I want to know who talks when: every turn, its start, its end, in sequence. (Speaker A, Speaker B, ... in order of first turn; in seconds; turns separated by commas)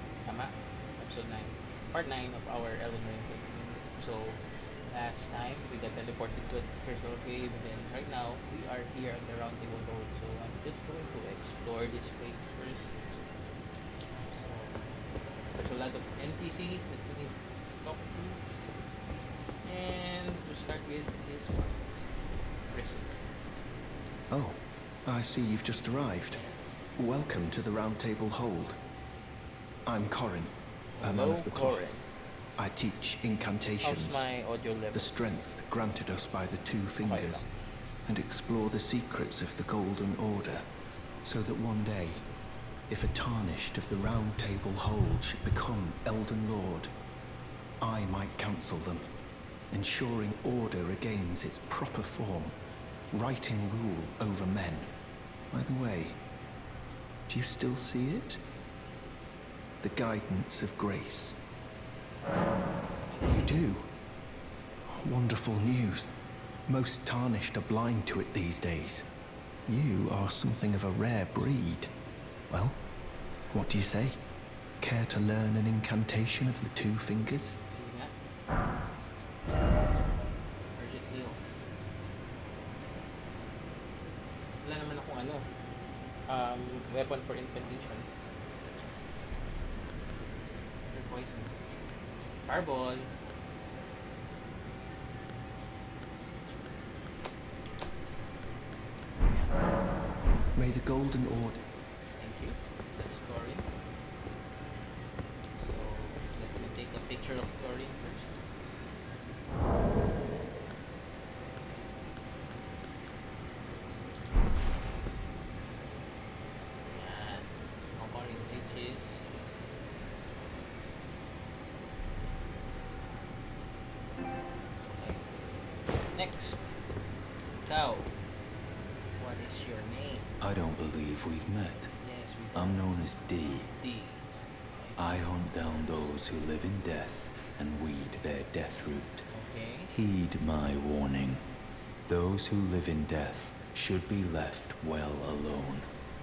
Speaker A: 0.2-12.9, Speaker A: 14.2-14.8, Speaker A: 15.5-18.4, Speaker A: 19.6-21.9, Speaker A: 22.6-23.2, Speaker B: 24.3-28.8, Speaker A: 26.3-27.0, Speaker B: 29.8-31.9, Speaker A: 30.9-32.0, Speaker B: 32.6-34.2, Speaker A: 33.8-35.4, Speaker B: 34.9-37.5, Speaker A: 37.0-37.5, Speaker B: 38.0-40.6, Speaker B: 41.2-42.2, Speaker B: 42.9-46.9, Speaker B: 47.8-49.1, Speaker B: 49.7-52.5, Speaker B: 53.1-54.9, Speaker B: 55.5-56.2, Speaker B: 57.3-58.4, Speaker B: 59.8-61.4, Speaker A: 63.1-63.6, Speaker B: 63.3-63.9, Speaker B: 64.8-66.1, Speaker B: 66.7-69.0, Speaker B: 69.7-71.9, Speaker B: 72.5-72.8, Speaker B: 73.5-74.2, Speaker B: 74.8-77.6, Speaker A: 77.7-78.1, Speaker A: 80.7-81.4, Speaker A: 84.6-85.5, Speaker A: 86.3-88.0, Speaker A: 90.9-91.6, Speaker A: 92.4-93.1, Speaker A: 99.2-99.9, Speaker B: 100.5-101.6, Speaker A: 102.2-103.7, Speaker A: 105.6-108.5, Speaker A: 116.9-119.3, Speaker A: 124.9-125.3, Speaker A: 126.1-126.6, Speaker A: 127.6-128.1, Speaker A: 129.2-130.3, Speaker C: 130.4-131.9, Speaker A: 132.0-132.8, Speaker C: 132.5-133.7, Speaker A: 133.8-135.0, Speaker C: 135.0-139.2, Speaker A: 139.3-139.9, Speaker C: 139.9-141.4, Speaker C: 142.1-145.9